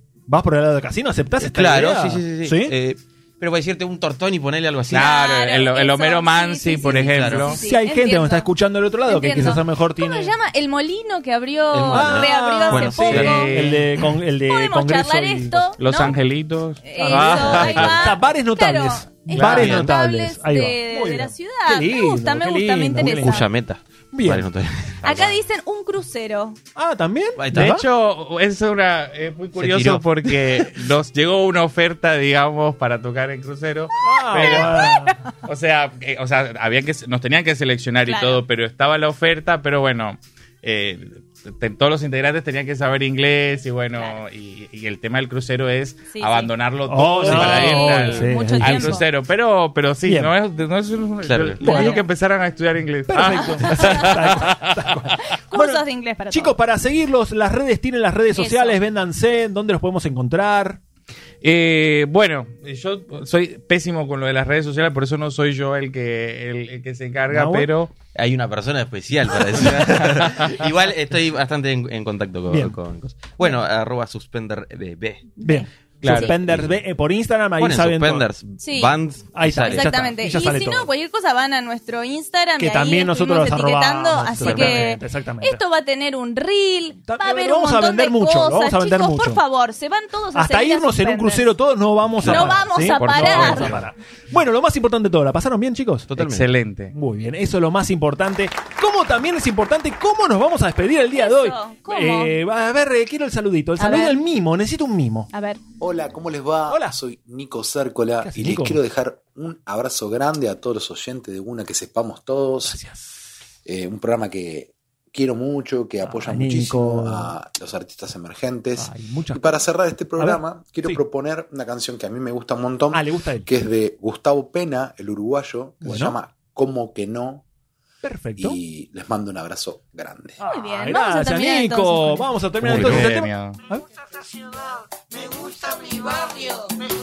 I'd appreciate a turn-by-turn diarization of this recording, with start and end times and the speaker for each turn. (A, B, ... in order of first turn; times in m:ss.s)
0:00.3-0:02.8 A
0:01.4-0:05.1 B
0:04.9-0:07.6 C
0:04.9-0:08.5 D
0:06.8-0:07.6 B
0:07.6-0:10.3 A
0:09.1-0:16.2 D
0:11.7-0:13.6 B
0:11.9-0:15.7 A
0:13.1-0:13.9 C
0:15.8-0:18.0 C
0:16.8-0:23.5 D
0:17.0-0:23.5 A
0:17.4-0:17.9 B
0:19.4-0:19.7 C
0:19.4-0:19.9 B
0:23.0-0:25.4 B
0:24.1-0:24.5 A
0:25.0-0:26.6 D
0:26.8-0:27.9 A
0:27.4-0:27.8 B
0:27.5-0:54.8 C
0:29.6-0:30.8 B
0:34.0-0:35.2 A
0:34.6-0:35.3 D
0:38.1-0:38.4 D
0:43.9-0:44.2 D
0:46.1-0:46.5 D
0:46.9-0:49.0 A
0:47.2-0:49.0 D
0:50.0-0:50.3 A
0:51.2-0:51.9 B
0:51.6-0:52.0 A
0:51.6-0:52.0 D
0:53.1-1:00.8 A
0:53.3-0:54.2 D
0:55.2-0:56.6 D
0:58.3-0:58.8 D
1:01.4-1:07.9 C
1:07.3-1:07.7 A
1:08.2-1:15.4 B
1:09.8-1:10.1 A
1:12.5-1:12.8 A
1:15.4-1:16.4 D
1:15.4-1:18.3 A
1:16.0-1:16.4 C
1:16.5-1:16.8 B
1:17.6-1:20.2 B
1:18.6-1:19.0 D
1:19.3-1:20.9 A
1:19.6-1:31.5 D
1:22.6-1:25.6 A
1:24.4-1:24.7 C
1:27.1-1:29.4 A
1:30.3-1:36.4 A
1:32.2-1:33.9 C
1:32.2-1:33.8 D
1:36.1-1:36.5 B
1:36.2-1:36.9 C
1:36.9-1:45.3 A
1:41.1-1:42.4 D
1:43.8-1:44.2 D
1:45.3-1:45.6 D
1:45.8-1:52.8 E
1:46.7-1:47.0 A
1:48.2-1:48.8 A
1:52.6-1:53.1 A
1:53.7-2:07.4 E
1:56.0-1:57.3 A
1:58.8-1:59.6 A
2:00.2-2:01.0 A
2:02.9-2:03.5 A
2:05.8-2:06.2 A
2:08.0-2:08.6 A
2:08.4-2:10.4 E
2:10.4-2:13.9 A
2:10.4-2:12.3 D
2:12.6-2:13.6 C
2:12.7-2:13.0 B
2:15.8-2:16.7 A